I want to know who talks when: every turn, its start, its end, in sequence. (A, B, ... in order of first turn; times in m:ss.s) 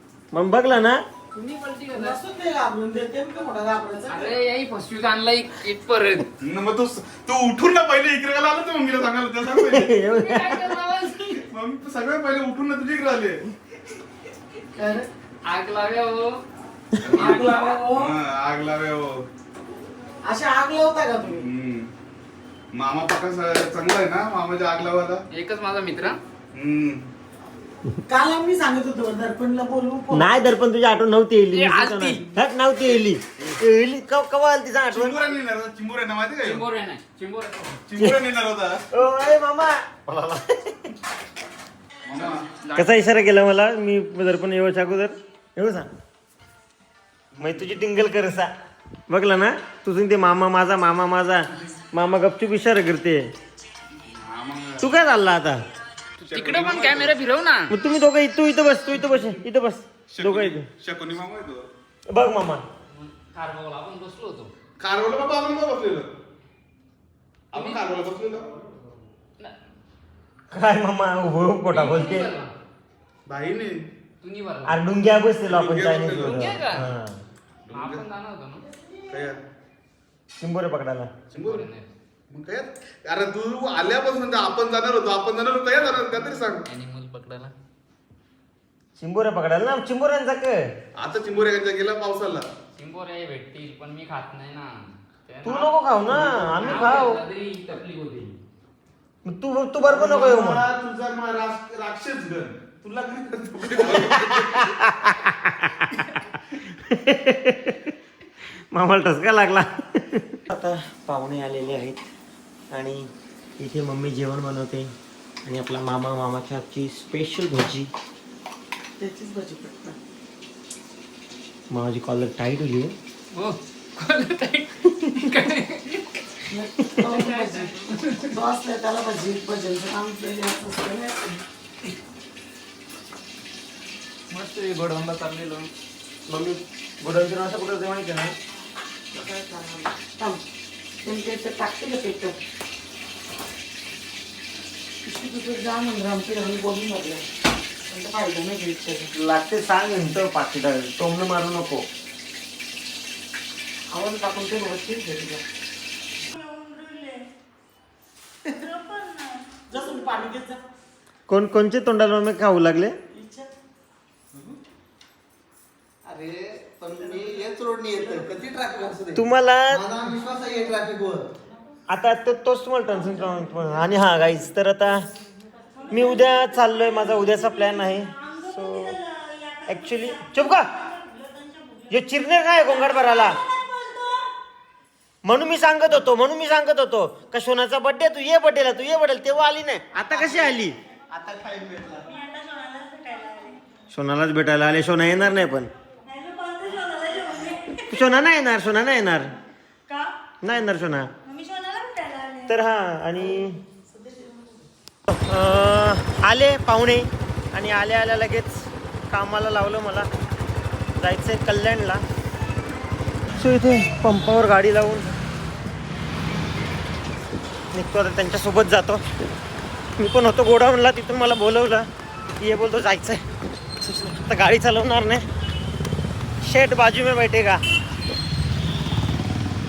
0:00.3-0:01.0 A
0:01.3-0:02.2 B
0:01.9-0:04.4 C
0:04.1-0:06.3 B
0:06.4-0:09.9 D
0:09.5-0:10.8 A
0:10.0-0:11.4 B
0:11.4-0:13.4 D
0:14.8-0:15.1 C
0:15.4-0:16.4 B
0:17.0-0:19.2 D
0:17.1-0:18.2 C
0:17.2-0:17.8 B
0:20.2-0:21.5 C
0:21.2-0:21.9 D
0:22.7-0:25.2 D
0:25.3-0:26.2 B
0:26.5-0:27.1 D
0:28.1-0:30.4 C
0:30.1-0:35.3 A
0:31.5-0:32.3 B
0:34.9-0:36.6 D
0:36.4-0:37.8 B
0:37.9-0:38.8 D
0:38.0-0:38.2 A
0:38.9-0:40.9 A
0:42.1-0:42.5 D
0:42.1-0:43.0 B
0:42.8-0:45.9 A
0:47.3-0:47.7 D
0:47.4-0:48.5 A
0:49.1-0:53.3 A
0:54.1-0:54.9 D
0:54.8-0:55.7 A
0:56.2-0:57.2 D
0:56.3-0:57.8 B
0:57.7-1:00.7 A
1:00.1-1:01.7 D
1:02.1-1:02.6 A
1:02.9-1:04.5 B
1:04.8-1:06.1 D
1:07.5-1:08.5 D
1:07.5-1:07.9 B
1:10.5-1:12.3 A
1:11.7-1:12.5 B
1:13.2-1:13.8 D
1:14.2-1:14.8 B
1:14.7-1:17.2 A
1:15.5-1:16.6 D
1:16.2-1:16.9 B
1:17.7-1:18.0 D
1:17.7-1:18.6 B
1:19.1-1:19.4 D
1:20.4-1:21.1 A
1:21.3-1:21.9 B
1:21.3-1:21.7 D
1:22.3-1:26.6 D
1:26.6-1:27.5 B
1:29.0-1:30.7 A
1:31.0-1:32.5 D
1:32.8-1:38.4 B
1:35.4-1:37.2 A
1:36.1-1:37.1 D
1:39.2-1:40.7 A
1:39.8-1:44.7 D
1:43.8-1:46.1 A
1:46.7-1:47.9 A
1:48.7-1:52.0 A
1:52.7-1:54.9 A
1:55.4-1:57.9 A
1:59.0-2:00.0 C
2:01.7-2:03.0 A
2:03.3-2:06.1 B
2:06.5-2:11.4 C
2:07.0-2:08.4 B
2:14.3-2:15.7 B
2:16.3-2:18.4 A
2:19.1-2:20.4 C
2:21.0-2:22.4 C
2:25.0-2:27.3 C
2:27.9-2:29.1 C
2:29.1-2:31.9 A
2:33.9-2:35.4 C
2:36.3-2:37.3 E
2:38.5-2:40.0 E
2:39.7-2:40.6 C
2:41.3-2:43.0 A
2:43.1-2:43.5 C
2:46.0-2:51.3 F
2:48.0-2:48.2 C
2:49.1-2:49.8 A
2:51.9-2:55.1 A
2:55.8-3:02.1 E
2:55.9-2:59.0 A
2:59.7-3:00.7 A
3:01.9-3:03.4 A
3:02.6-3:04.3 E
3:05.2-3:10.8 A
3:10.1-3:10.6 F
3:11.1-3:12.1 F
3:12.0-3:13.6 E
3:13.9-3:15.7 A
3:16.1-3:18.1 E
3:17.9-3:19.3 A
3:19.9-3:20.1 E
3:20.4-3:21.1 A
3:21.2-3:22.6 E
3:22.5-3:23.6 A
3:23.2-3:24.6 C
3:25.1-3:30.1 A
3:31.0-3:32.0 A
3:33.4-3:35.1 A
3:37.7-3:39.1 A
3:40.0-3:41.9 A
3:42.4-3:43.2 A
3:43.8-3:45.3 A
3:46.4-3:47.6 A